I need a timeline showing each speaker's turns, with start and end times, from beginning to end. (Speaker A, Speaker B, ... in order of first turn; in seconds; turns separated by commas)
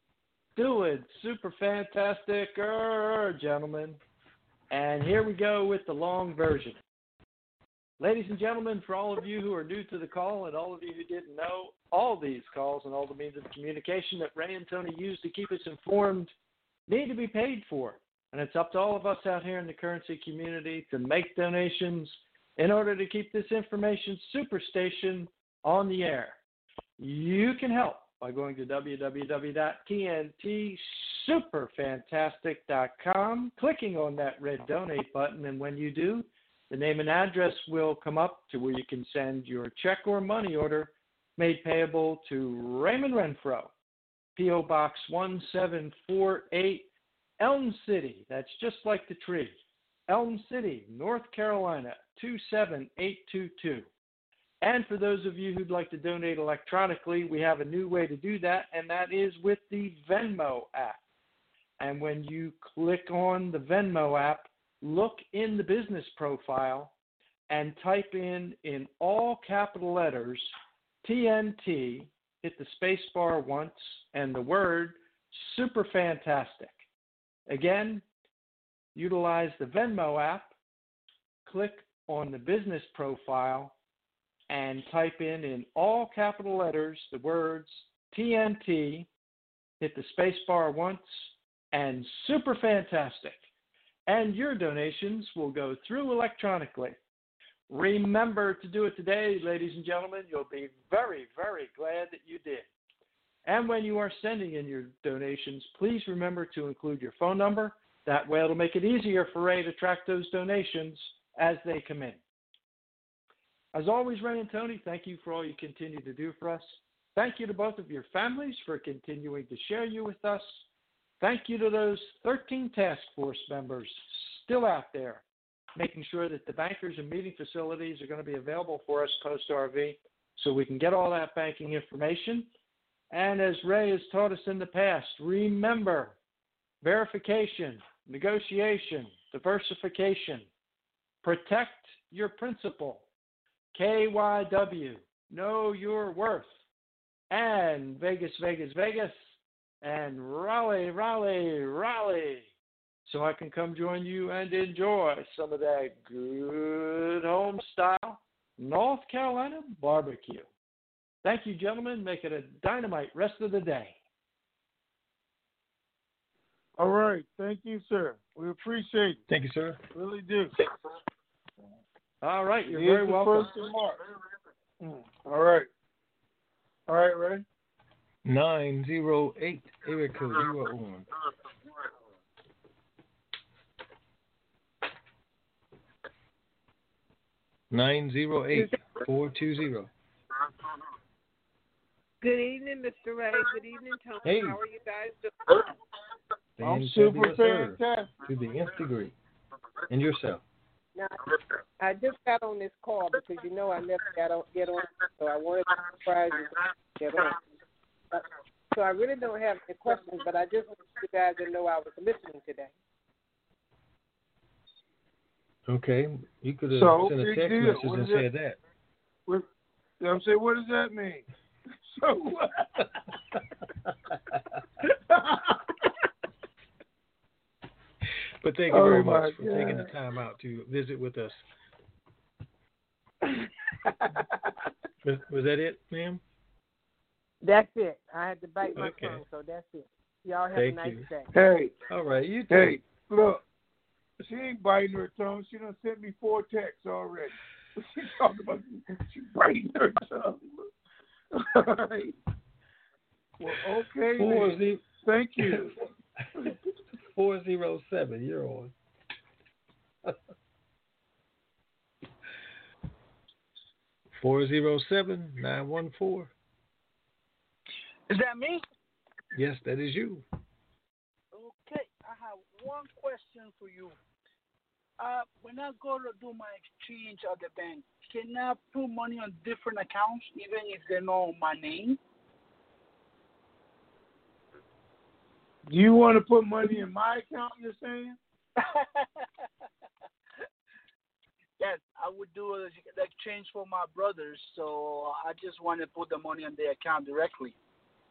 Speaker A: 0.6-4.0, Speaker A: 4.7-6.8, Speaker A: 8.0-16.3, Speaker A: 16.9-26.4, Speaker A: 27.0-43.7, Speaker A: 44.4-46.9, Speaker A: 47.4-49.6, Speaker A: 50.1-53.9, Speaker A: 54.6-61.0, Speaker A: 61.8-66.9, Speaker A: 67.5-70.5, Speaker A: 71.0-76.8, Speaker A: 77.5-78.0, Speaker A: 78.9-80.5, Speaker A: 81.5-83.7, Speaker A: 84.5-89.1, Speaker A: 89.8-93.4, Speaker A: 94.1-97.0, Speaker A: 97.7-102.7, Speaker A: 103.5-112.2, Speaker A: 113.7-120.6, Speaker A: 121.2-125.2, Speaker A: 125.8-132.5, Speaker A: 133.1-136.1, Speaker A: 136.8-140.5, Speaker A: 141.2-143.1, Speaker A: 143.7-146.5, Speaker A: 147.3-149.3, Speaker A: 149.8-152.5, Speaker A: 153.1-160.5, Speaker A: 161.2-163.9, Speaker B: 166.8-169.2, Speaker C: 169.3-169.8, Speaker B: 169.9-170.5, Speaker A: 172.2-173.5, Speaker B: 172.7-174.0, Speaker B: 174.8-175.7, Speaker B: 176.9-177.4, Speaker C: 178.2-181.1, Speaker C: 187.7-189.9, Speaker D: 192.2-195.3, Speaker C: 194.2-194.6, Speaker C: 196.6-199.1, Speaker B: 196.6-198.1, Speaker C: 199.9-200.4, Speaker D: 201.8-207.4, Speaker D: 208.1-212.7, Speaker C: 215.7-218.6, Speaker B: 216.7-218.2, Speaker B: 220.0-221.2, Speaker B: 221.9-222.8, Speaker B: 225.1-225.5, Speaker C: 228.4-231.4, Speaker B: 228.7-229.9, Speaker C: 235.0-236.2, Speaker D: 237.4-241.3, Speaker C: 238.7-239.2, Speaker C: 240.5-241.1, Speaker B: 241.3-241.7, Speaker C: 241.9-242.8, Speaker B: 242.5-243.4, Speaker B: 244.2-250.4, Speaker B: 251.3-252.1, Speaker B: 253.4-255.8, Speaker C: 254.2-254.8, Speaker C: 257.1-258.7, Speaker C: 264.2-266.3, Speaker E: 268.1-268.6, Speaker C: 269.3-270.2, Speaker E: 271.3-273.9, Speaker E: 275.0-282.0, Speaker B: 285.7-288.2, Speaker E: 291.6-297.5